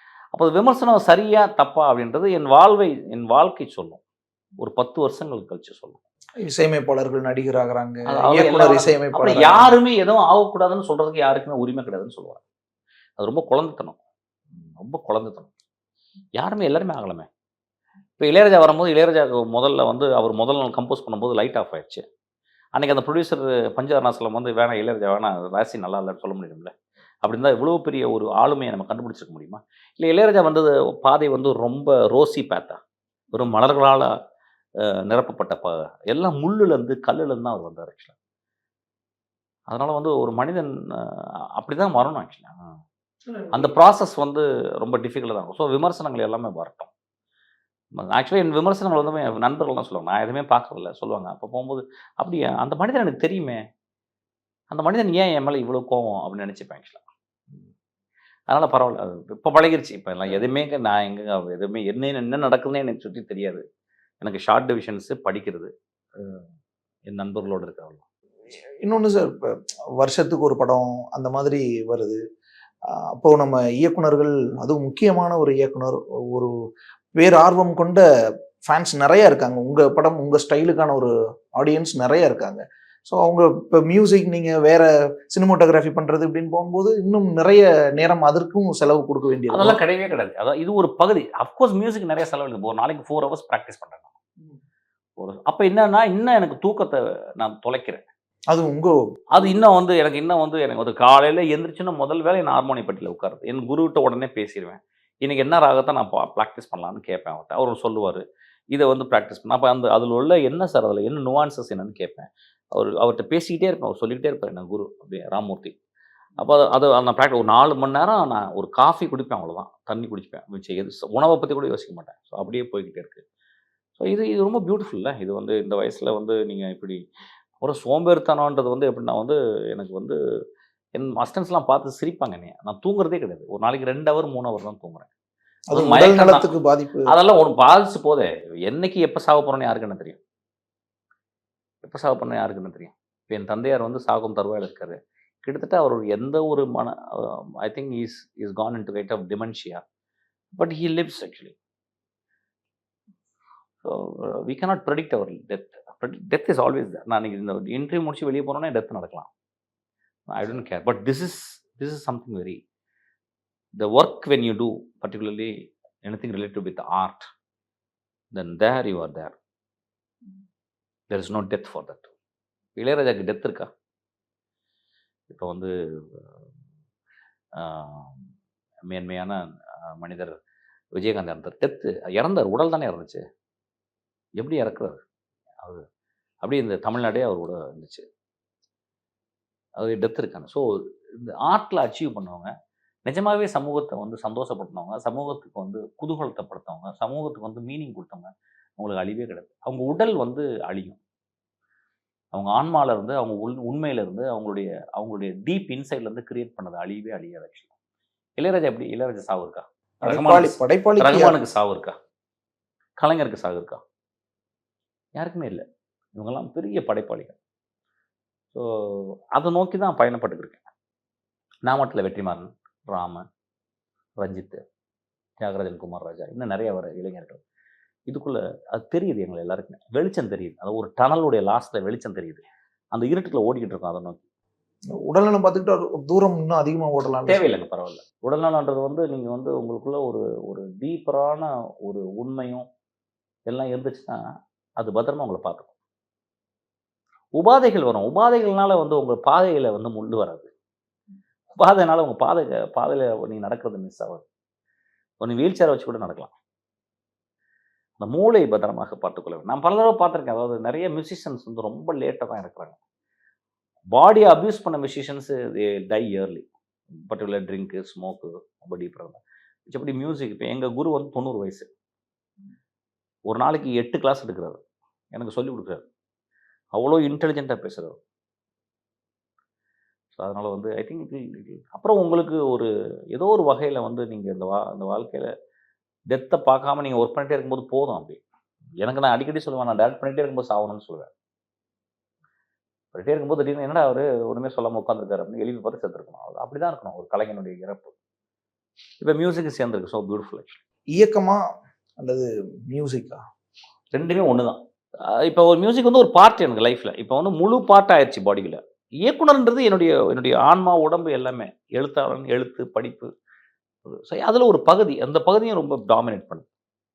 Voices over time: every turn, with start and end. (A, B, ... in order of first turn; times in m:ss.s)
0:00.3-0:04.0 A
0:04.6-0:06.0 A
0:06.4-0:09.8 B
0:08.1-0:12.4 A
0:13.2-0:14.0 A
0:14.5-0:15.5 A
0:16.4-0:17.3 A
0:18.2-0:22.0 A
0:22.8-0:26.7 A
0:27.2-0:32.8 A
0:33.3-0:34.1 A
0:34.8-0:38.1 A
0:39.7-0:42.8 A
0:43.3-0:43.8 B
0:43.5-0:46.9 A
0:48.0-0:53.6 A
0:54.7-0:57.7 A
0:58.5-1:03.6 A
1:04.2-1:06.4 A
1:07.1-1:08.0 A
1:08.5-1:09.5 B
1:10.0-1:12.2 B
1:12.9-1:16.5 B
1:17.2-1:18.0 B
1:18.6-1:29.8 B
1:29.5-1:34.1 A
1:35.2-1:38.0 A
1:38.5-1:39.0 B
1:39.3-1:55.8 A
1:56.4-2:03.2 A
2:04.0-2:07.0 A
2:07.6-2:10.2 A
2:11.0-2:15.1 A
2:15.7-2:17.1 B
2:15.7-2:16.5 A
2:17.1-2:20.2 A
2:21.8-2:29.8 A
2:30.6-2:31.6 A
2:33.8-2:39.3 A
2:40.3-2:42.6 A
2:43.8-2:47.3 A
2:48.3-2:49.4 A
2:51.1-2:52.1 A
2:52.8-2:53.7 A
2:55.3-2:56.2 A
2:57.6-2:58.3 A
2:58.9-3:00.4 A
3:01.0-3:03.2 A
3:04.4-3:05.0 A
3:06.4-3:08.1 A
3:09.8-3:12.5 A
3:13.1-3:21.0 A
3:22.3-3:27.7 A
3:28.4-3:32.0 A
3:30.0-3:31.4 B
3:33.0-3:33.8 A
3:35.2-3:35.6 A
3:36.2-3:37.4 A
3:38.5-3:40.6 A
3:41.7-3:43.2 A
3:44.2-3:44.6 A
3:45.4-3:47.4 A
3:48.1-3:54.2 A
3:55.0-3:57.4 B
3:57.3-4:02.7 A
4:03.5-4:04.2 A
4:04.8-4:05.7 A
4:07.4-4:10.5 A
4:11.6-4:14.2 A
4:15.2-4:16.3 A
4:18.0-4:22.8 A
4:23.9-4:26.5 A
4:27.0-4:31.7 A
4:33.3-4:34.6 A
4:35.1-4:35.8 A
4:36.8-4:38.0 A
4:40.1-4:45.3 A
4:46.1-4:48.2 A
4:48.8-4:51.1 A
4:52.9-4:57.9 A
4:59.0-5:00.6 A
5:01.0-5:01.4 B
5:02.0-5:03.2 B
5:03.9-5:13.1 A
5:13.8-5:16.4 A